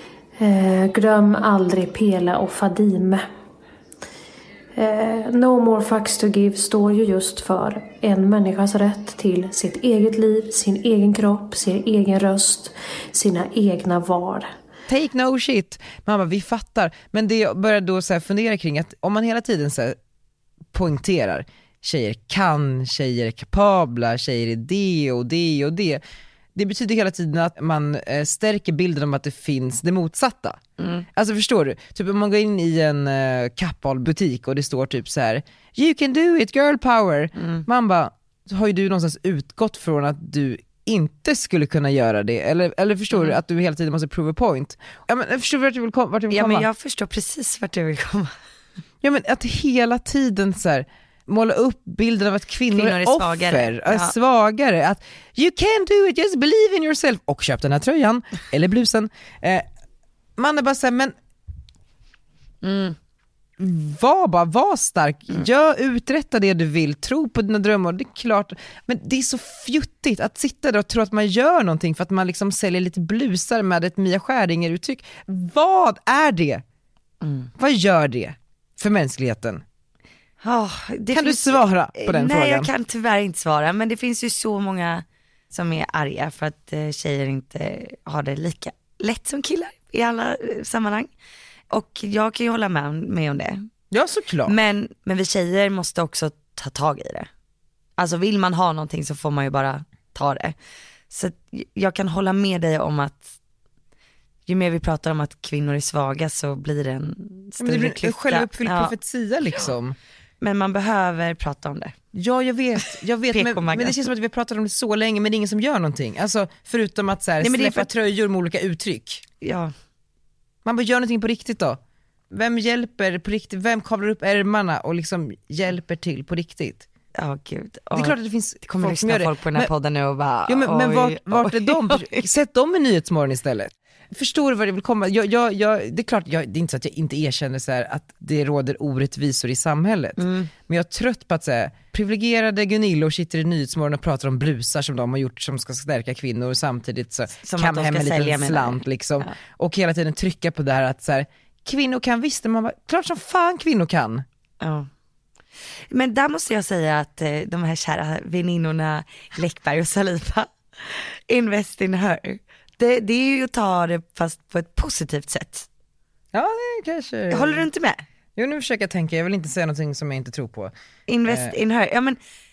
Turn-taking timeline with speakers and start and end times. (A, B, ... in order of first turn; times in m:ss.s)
0:00.4-0:03.2 A
0:04.7-0:14.5 A
0:14.9-0:20.0 B
0:20.7-0:26.0 B
0:26.5-0:30.6 B
0:30.8-0:31.1 C
0:31.1-0:46.7 B
0:37.4-0:37.6 C
0:46.3-0:48.4 C
0:49.0-0:59.6 B
0:52.7-0:54.1 C
1:00.4-1:01.1 B
1:02.6-1:03.0 C
1:03.6-1:16.6 B
1:17.2-1:17.5 C
1:17.6-1:19.6 B
1:20.4-1:31.1 C
1:21.1-1:22.7 B
1:31.7-1:33.6 C
1:33.9-1:34.6 B
1:34.5-1:37.3 C
1:38.0-1:40.5 C
1:41.1-1:43.3 C
1:44.5-1:48.9 C
1:47.6-1:50.0 B
1:50.4-1:51.9 C
1:52.1-1:59.2 B
1:53.3-1:54.0 C
1:57.4-1:57.9 C
1:59.4-1:59.7 C
2:00.6-2:01.8 B
2:02.3-2:06.8 B
2:07.2-2:12.3 C
2:07.9-2:09.7 B
2:10.5-2:34.2 B
2:20.2-2:20.5 C
2:27.4-2:29.3 C
2:34.6-2:34.9 C
2:35.9-2:45.7 C
2:46.3-2:47.6 B
2:47.3-2:48.0 C
2:48.4-2:50.7 B
2:51.1-2:52.2 C
2:51.2-2:51.6 B